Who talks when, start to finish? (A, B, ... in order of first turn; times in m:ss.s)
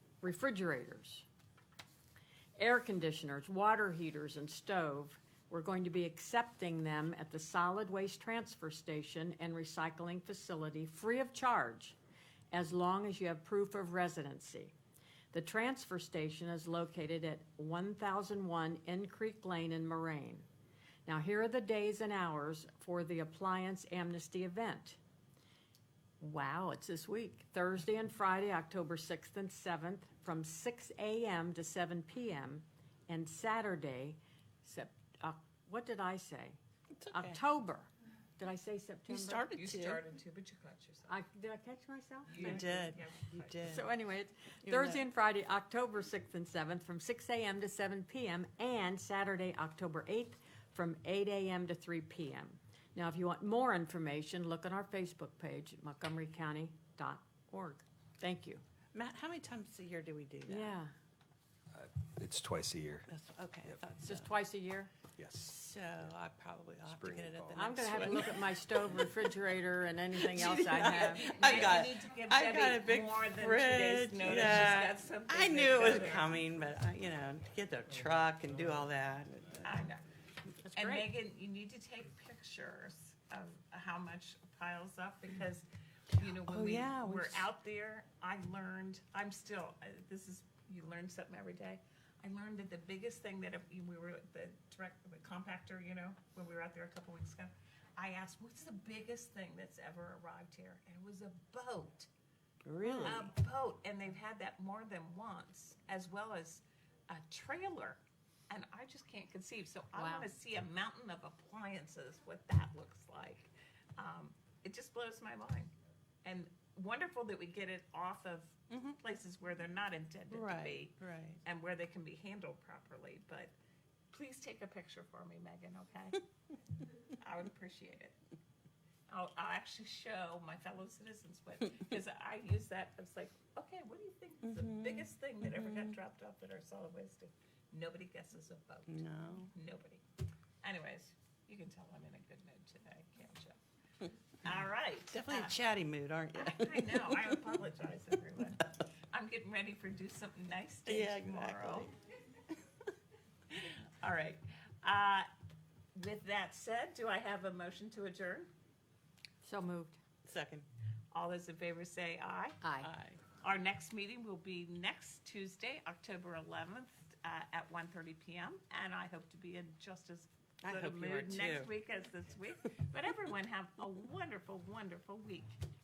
0:00.2-0:01.3 A
0:02.6-0:12.0 A
0:12.5-0:14.7 A
0:15.3-0:20.5 A
0:21.1-0:25.0 A
0:26.2-0:36.6 A
0:37.0-0:37.4 B
0:37.1-0:39.5 A
0:39.2-0:40.0 B
0:39.5-0:41.2 C
0:41.1-0:43.0 A
0:42.3-0:43.7 C
0:42.4-0:43.9 B
0:43.6-0:58.6 A
0:44.7-0:45.0 B
0:58.9-1:00.8 B
1:00.5-1:00.9 A
1:01.7-1:03.1 D
1:03.1-1:04.3 B
1:04.0-1:04.9 A
1:05.2-1:06.1 D
1:05.4-1:08.2 B
1:06.8-1:08.3 D
1:07.6-1:11.8 A
1:10.2-1:19.7 B
1:10.8-1:16.3 C
1:19.6-1:20.0 C
1:20.6-1:21.1 A
1:20.7-1:42.1 C
1:26.4-1:27.4 B
1:42.6-1:43.3 B
1:42.8-1:43.2 A
1:43.0-1:55.7 C
1:50.0-1:50.3 A
1:56.2-2:03.5 C
1:58.7-1:59.0 B
2:00.3-2:01.4 B
2:04.1-2:06.2 C
2:07.2-2:08.2 C
2:09.1-2:20.0 C
2:14.4-2:16.0 B
2:18.9-2:19.5 B
2:20.6-2:23.6 C
2:24.4-2:25.6 C
2:25.1-2:27.2 B
2:26.3-2:31.9 C
2:30.9-2:31.9 B
2:33.5-2:35.3 C
2:36.0-2:38.5 C
2:39.4-2:40.0 A
2:40.2-2:40.7 B
2:41.1-2:42.6 C
2:42.6-2:42.9 A
2:42.8-2:43.2 B
2:43.4-2:55.6 C
2:50.6-2:51.7 B